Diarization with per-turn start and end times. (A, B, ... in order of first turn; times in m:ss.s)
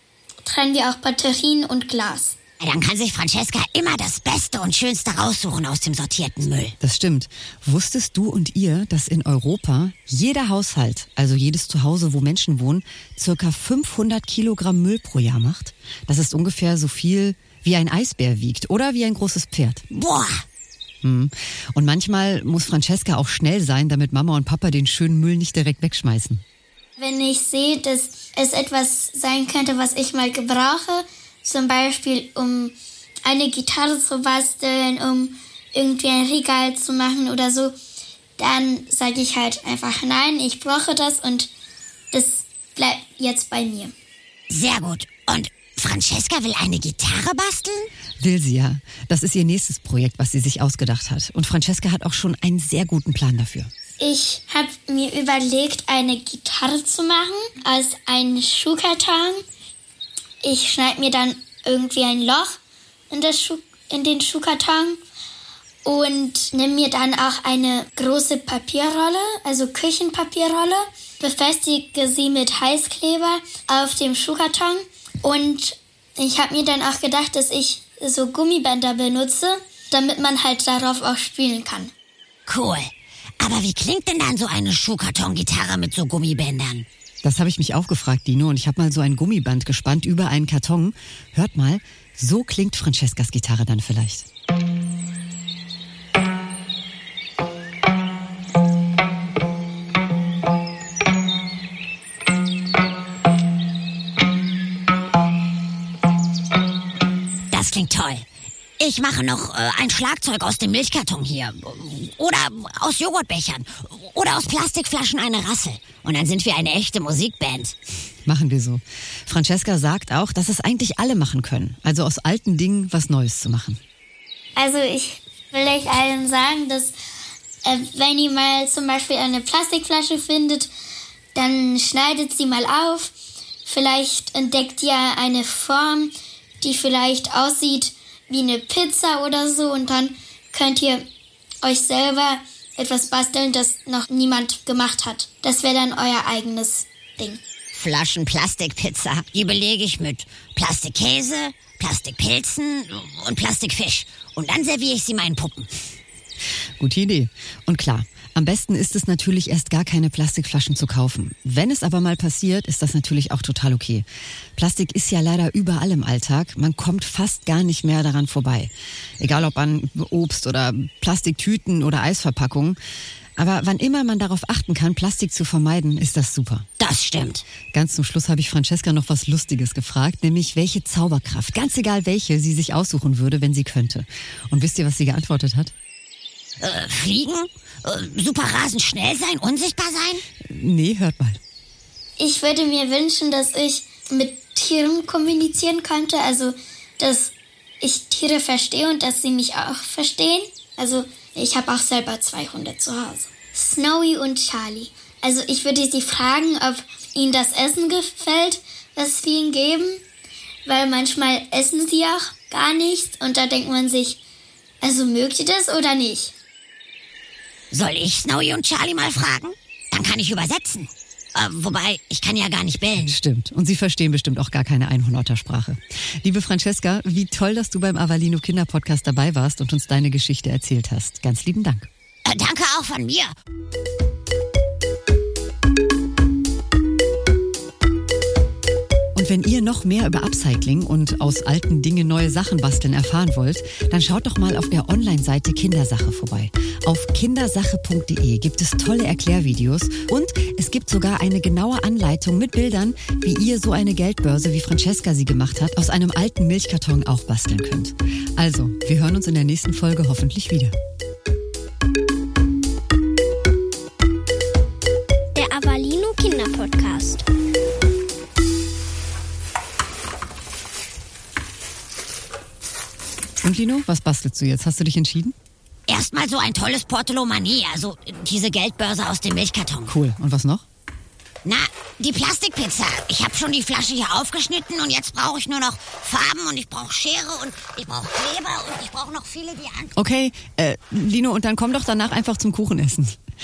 0:00.4-0:02.3 A
0:02.6-0:06.7 B
0:06.8-0:19.8 C
0:19.9-0:20.4 B
0:21.0-0:26.4 C
0:27.0-0:37.8 A
0:38.4-0:41.5 A
0:42.1-0:43.9 A
0:44.5-0:47.9 B
0:48.2-0:53.7 C
0:54.0-0:59.4 A
1:00.4-1:02.6 A
1:03.1-1:05.0 A
1:05.8-1:21.9 A
1:22.5-1:26.8 B
1:27.2-1:34.3 C
1:47.5-1:48.2 B
1:48.8-1:57.7 B
1:58.2-2:03.8 C
2:04.6-2:06.9 A
2:07.6-2:10.7 A
2:11.3-2:13.1 A
2:13.6-2:21.0 A
2:21.6-2:27.4 A
2:27.7-2:35.7 B
2:36.8-2:52.8 C
2:53.4-2:56.6 C
2:56.8-2:57.4 B
2:57.7-3:05.7 C
3:06.6-3:10.2 B
3:10.4-3:11.4 C
3:12.2-3:30.0 A
3:30.6-3:34.2 A
3:34.8-3:36.3 A
3:37.7-3:43.2 B
3:43.0-3:51.9 C
3:52.2-3:53.3 B
3:59.1-4:20.7 C
4:25.3-4:27.3 D
4:33.4-4:35.3 C
4:35.9-4:39.9 B
4:39.9-4:40.6 C
4:41.4-4:49.9 B
4:50.0-4:53.2 C